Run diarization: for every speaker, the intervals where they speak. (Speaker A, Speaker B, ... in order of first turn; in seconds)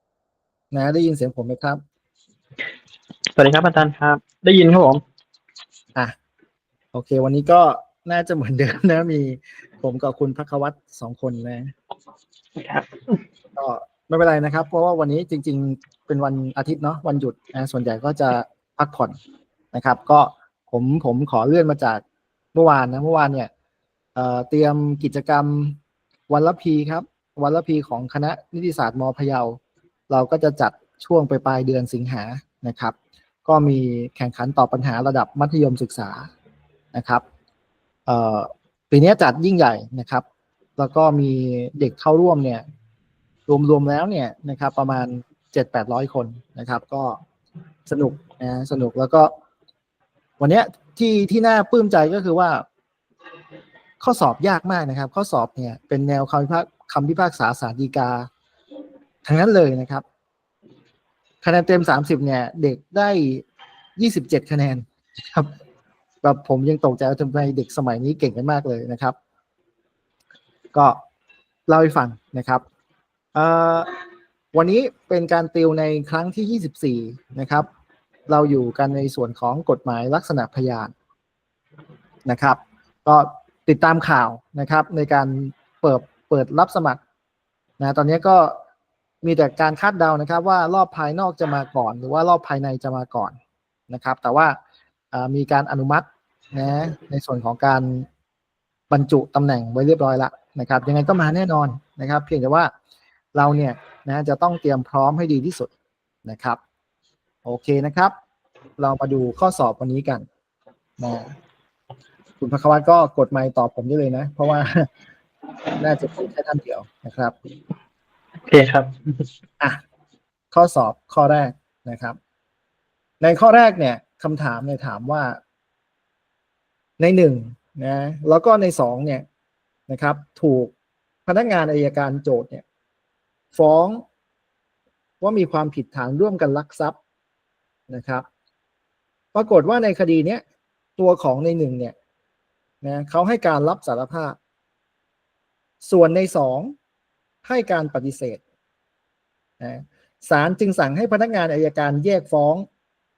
Speaker A: 0.7-1.8, 6.9-11.7, 13.6-19.1, 19.7-22.0, 22.5-23.5, 24.1-25.8, 26.3-29.6, 30.1-36.3, 36.9-37.2, 38.1-40.2, 40.8-42.6, 43.5-47.2, 47.9-49.3, 50.4-52.6, 54.0-58.3, 59.2-60.0, 61.4-63.4, 64.0-65.5, 66.2-69.2, 70.7-71.0, 71.7-72.6, 73.3-73.9, 74.5-77.7, 78.3-80.9, 82.2-87.0, 87.8-88.6, 89.2-93.4, 93.9-94.6, 95.1-98.0, 98.9-102.7, 103.3-105.7, 106.2-106.6, 107.4-108.1, 108.8-110.2, 111.0-111.3, 112.4-114.9, 115.7-117.3, 120.5-122.2, 123.2-125.4, 127.0-129.2, 129.9-130.7, 131.2-132.6, 133.5-134.0, 135.2-137.0, 137.9-138.2, 139.3-140.4, 141.0-141.9, 142.8-144.4, 145.8-146.7, 147.4-148.4, 149.6-152.6
Speaker B: 3.3-5.0, 12.6-13.2, 118.4-119.2